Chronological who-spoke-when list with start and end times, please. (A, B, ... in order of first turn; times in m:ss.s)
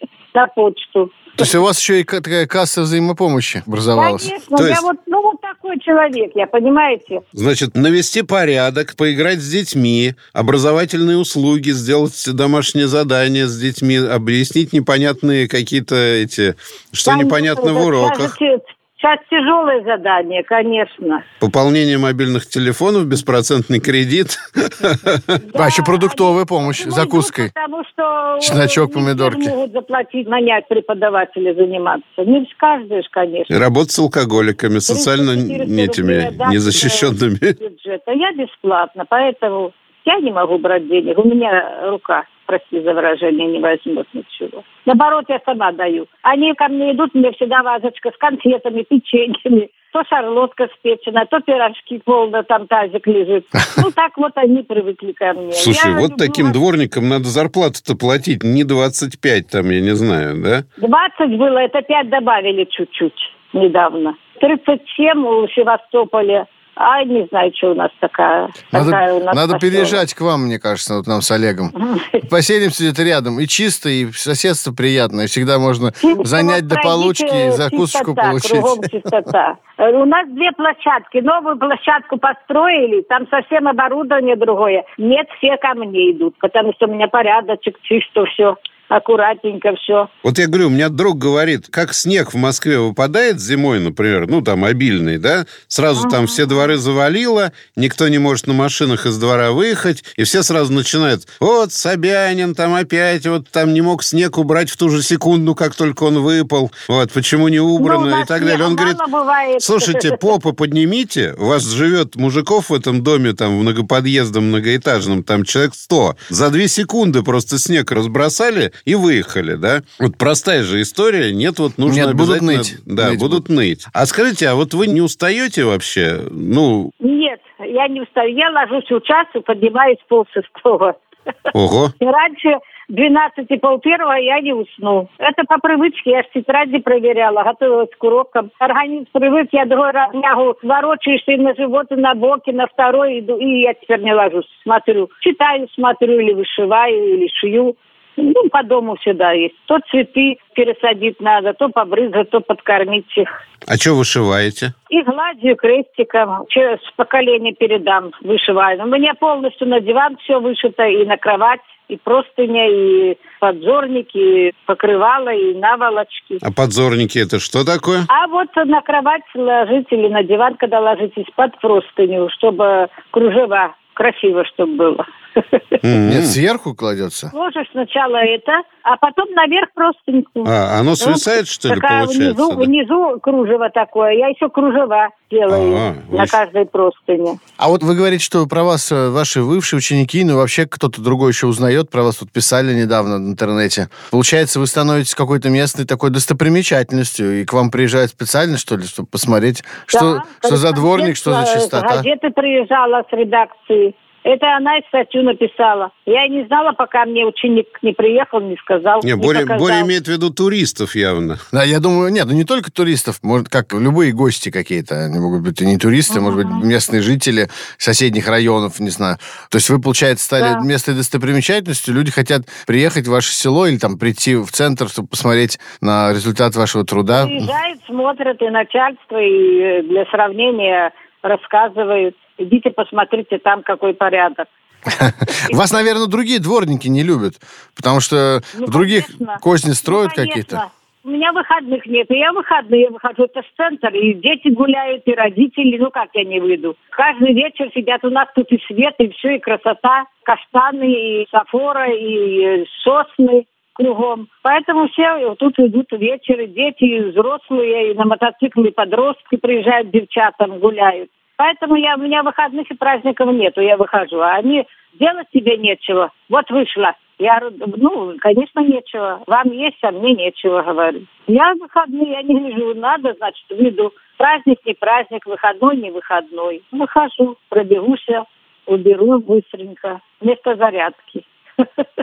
0:00.3-0:01.1 A
0:01.4-0:04.3 B
0:03.9-0:07.2 A
0:04.6-0:04.8 C
0:07.3-0:18.3 C
0:17.0-0:21.2 A
0:21.4-0:25.4 C
0:25.4-0:33.5 A
0:25.5-0:27.5 B
0:28.4-0:29.5 B
0:33.5-0:37.6 C
0:34.9-0:56.6 A
0:55.5-1:00.6 C
1:00.8-1:10.0 A
1:08.7-1:18.9 B
1:11.7-1:12.2 A
1:16.0-1:30.1 A
1:30.2-1:49.0 C
1:36.0-1:36.7 A
1:47.8-1:50.3 A
1:49.6-2:06.9 C
2:01.8-2:03.4 B
2:07.0-2:10.9 A
2:11.5-2:11.9 C
2:12.0-2:33.3 A
2:33.7-2:34.7 C
2:34.9-2:46.4 A
2:46.4-2:48.1 C
2:48.1-2:55.8 A
2:55.8-2:56.4 C
2:56.0-2:57.3 B
2:57.3-3:07.4 A
3:00.4-3:02.7 C
3:05.5-3:06.3 C
3:07.6-3:22.1 B
3:19.9-3:29.9 A
3:29.0-3:31.4 C
3:31.5-3:47.5 B
3:36.1-3:36.6 A
3:40.4-3:40.6 A
3:47.1-3:54.5 A
3:54.9-4:00.6 B
3:58.6-4:41.6 A